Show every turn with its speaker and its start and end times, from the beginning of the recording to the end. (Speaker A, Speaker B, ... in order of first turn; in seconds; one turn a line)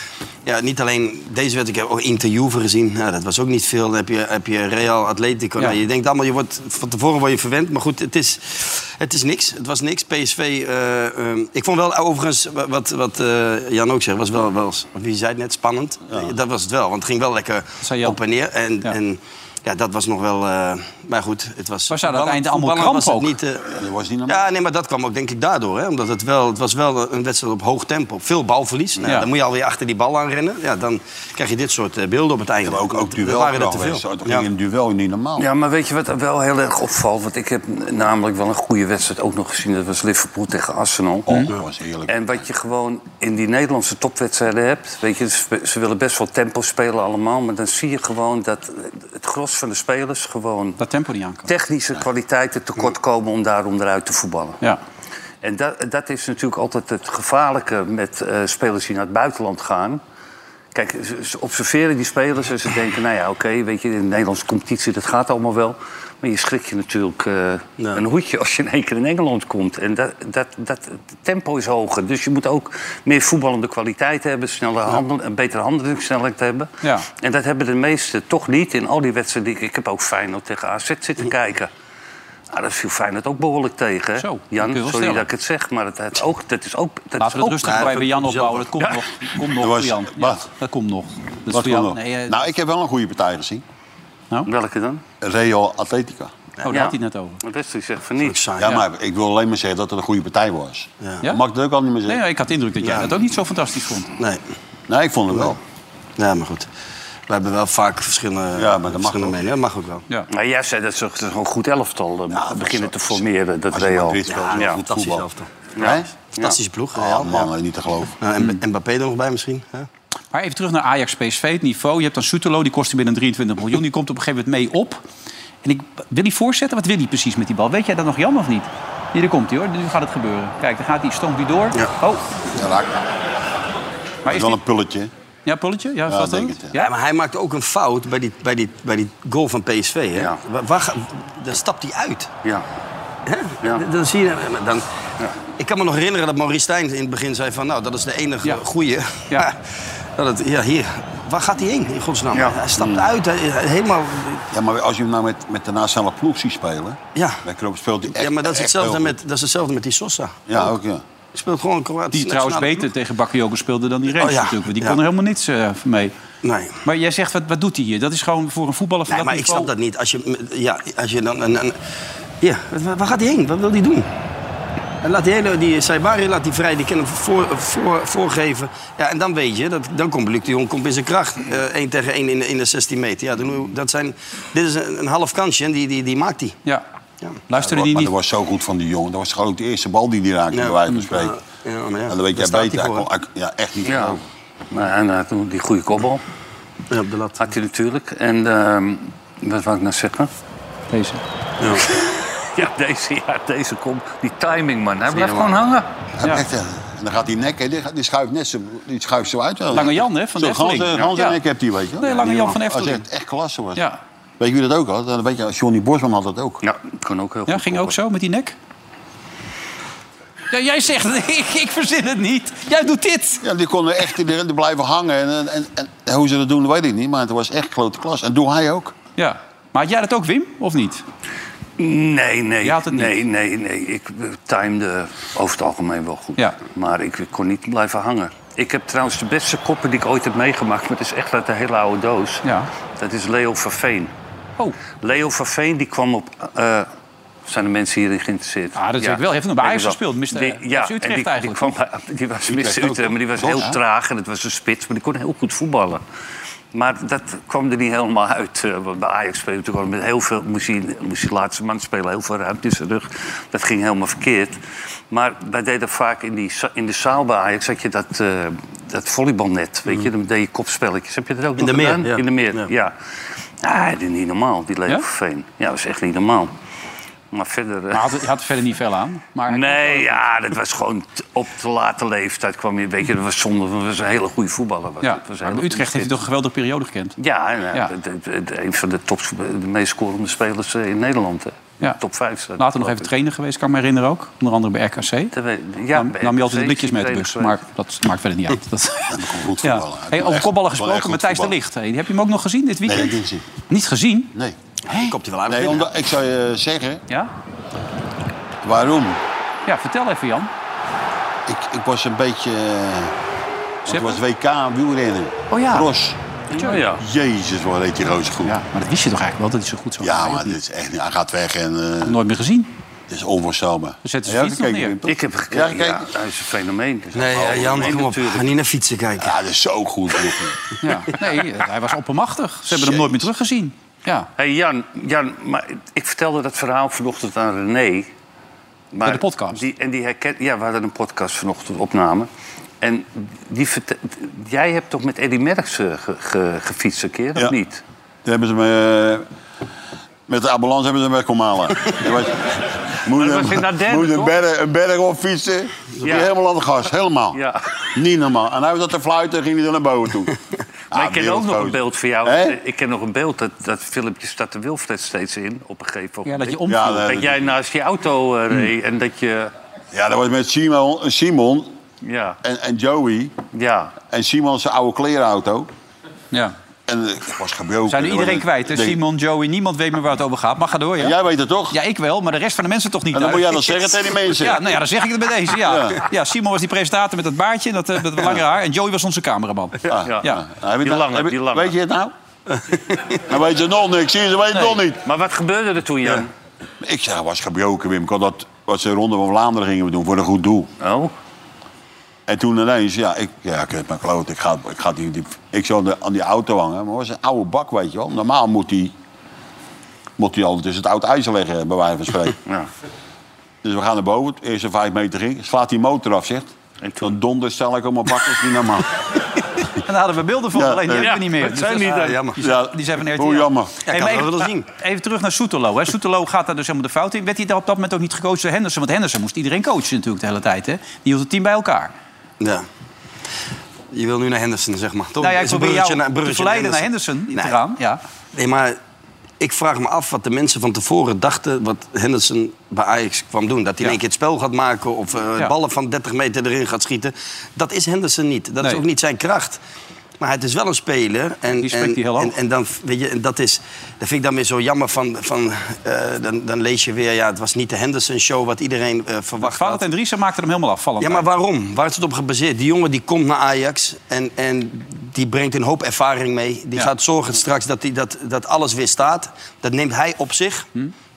Speaker A: 0.5-23.7
Speaker B: 17.8-18.2
Speaker B: 21.9-23.4
Speaker C: 23.7-24.5
Speaker A: 24.3-34.5
Speaker C: 32.6-35.5
Speaker D: 35.4-41.4
Speaker C: 41.3-42.4
Speaker D: 42.1-50.8
Speaker B: 50.8-51.5
Speaker D: 51.5-54.6
Speaker D: 55.4-60.0
Speaker D: 60.7-81.7
Speaker D: 82.5-88.0
Speaker B: 84.2-85.3
Speaker B: 87.2-92.4
Speaker A: 87.7-88.7
Speaker C: 89.6-90.4
Speaker C: 91.5-93.6
Speaker D: 94.5-95.0
Speaker C: 95.2-96.3
Speaker B: 96.6-97.4
Speaker D: 96.7-98.5
Speaker A: 98.2-98.8
Speaker C: 98.6-102.2
Speaker B: 102.1-104.1
Speaker A: 102.8-103.1
Speaker C: 104.9-105.6
Speaker A: 106.2-106.7
Speaker A: 107.3-110.0
Speaker C: 108.5-109.4
Speaker D: 110.3-114.8
Speaker C: 112.3-115.3
Speaker A: 114.3-115.5
Speaker D: 115.8-116.6
Speaker C: 115.8-116.1
Speaker A: 116.4-117.5
Speaker C: 117.0-118.2
Speaker A: 118.2-119.9
Speaker B: 120.3-125.0
Speaker B: 125.6-132.2
Speaker C: 132.5-133.1
Speaker B: 134.2-134.6
Speaker C: 134.3-135.1
Speaker B: 135.5-136.9
Speaker C: 136.1-136.7
Speaker A: 136.8-142.3
Speaker A: 143.3-144.9
Speaker A: 145.6-154.4
Speaker D: 152.3-152.6
Speaker C: 152.8-153.1
Speaker C: 154.5-159.2
Speaker A: 157.2-157.4
Speaker A: 158.1-160.7
Speaker C: 160.5-161.0
Speaker A: 161.3-162.9
Speaker B: 162.1-166.1
Speaker A: 164.1-165.0
Speaker A: 166.4-166.8
Speaker B: 166.8-169.7
Speaker A: 169.1-171.8
Speaker A: 172.4-174.1
Speaker A: 175.0-186.6
Speaker B: 187.5-188.1
Speaker C: 187.5-191.4
Speaker A: 190.5-193.1
Speaker C: 192.1-194.2
Speaker D: 193.9-194.2
Speaker D: 194.7-196.2
Speaker A: 196.9-197.4
Speaker D: 197.4-200.3
Speaker B: 200.9-201.2
Speaker A: 201.6-201.9
Speaker D: 201.9-205.9
Speaker A: 205.1-205.6
Speaker C: 206.2-213.8
Speaker B: 209.7-211.4
Speaker B: 212.0-213.1
Speaker C: 214.4-216.6
Speaker D: 216.6-218.0
Speaker B: 217.5-218.6
Speaker B: 220.5-223.4
Speaker C: 223.4-228.9
Speaker B: 229.2-231.0
Speaker D: 231.8-242.4
Speaker B: 232.6-233.2
Speaker D: 243.0-244.1
Speaker D: 245.0-246.9
Speaker D: 247.5-256.0
Speaker B: 248.8-251.8
Speaker C: 252.5-253.8
Speaker D: 256.7-264.6
Speaker D: 265.1-272.9
Speaker A: 271.6-272.7
Speaker D: 273.6-276.5
Speaker D: 277.3-278.2
Speaker B: 277.9-280.2
Speaker D: 279.5-286.2
Speaker B: 285.0-287.2
Speaker D: 287.2-293.1
Speaker B: 292.6-295.3
Speaker D: 295.3-297.6
Speaker B: 295.9-304.3
Speaker C: 299.1-301.6
Speaker C: 302.9-303.4
Speaker B: 304.9-305.1
Speaker A: 304.9-305.9
Speaker C: 305.5-307.0
Speaker C: 308.6-309.2
Speaker B: 309.7-310.5
Speaker C: 311.5-313.1
Speaker C: 313.9-316.2
Speaker B: 313.9-314.2
Speaker B: 315.5-315.9
Speaker B: 316.5-316.9
Speaker D: 316.5-317.0
Speaker C: 316.9-318.6
Speaker B: 318.4-320.6
Speaker C: 320.0-322.2
Speaker B: 322.0-322.7
Speaker C: 323.1-326.1
Speaker B: 324.0-325.0
Speaker D: 325.1-328.5
Speaker A: 327.1-329.3
Speaker C: 329.2-330.6
Speaker B: 330.8-334.3
Speaker C: 332.7-333.3
Speaker D: 334.4-338.1
Speaker D: 338.9-342.3
Speaker B: 339.0-339.6
Speaker D: 342.8-347.8
Speaker C: 348.2-349.2
Speaker C: 350.3-357.4
Speaker D: 353.1-354.4
Speaker D: 356.0-356.3
Speaker D: 357.3-357.6
Speaker C: 357.9-360.4
Speaker C: 360.9-362.6
Speaker D: 360.9-369.5
Speaker B: 366.2-367.1
Speaker C: 366.7-367.5
Speaker C: 369.9-371.7
Speaker D: 372.0-372.4
Speaker C: 372.4-373.4
Speaker D: 373.5-374.0
Speaker C: 374.1-375.7
Speaker C: 376.9-379.0
Speaker B: 377.9-381.2
Speaker C: 381.0-381.8
Speaker B: 381.7-390.4
Speaker C: 383.1-384.7
Speaker C: 385.6-386.0
Speaker C: 389.9-392.1
Speaker D: 390.1-391.8
Speaker A: 392.6-393.2
Speaker C: 393.2-395.1
Speaker D: 395.0-396.3
Speaker C: 396.8-400.7
Speaker D: 400.8-401.1
Speaker C: 402.3-408.9
Speaker C: 410.2-412.4
Speaker C: 413.6-418.9
Speaker D: 416.8-417.1
Speaker B: 419.8-431.9
Speaker C: 420.5-421.1
Speaker D: 421.0-422.2
Speaker A: 421.6-422.4
Speaker C: 422.4-423.8
Speaker A: 423.9-424.7
Speaker A: 432.4-432.7
Speaker A: 433.9-437.6
Speaker B: 435.2-438.0
Speaker A: 438.3-438.8
Speaker A: 439.4-449.6
Speaker A: 450.2-459.8
Speaker B: 451.6-452.4
Speaker B: 459.4-461.3
Speaker A: 461.0-470.7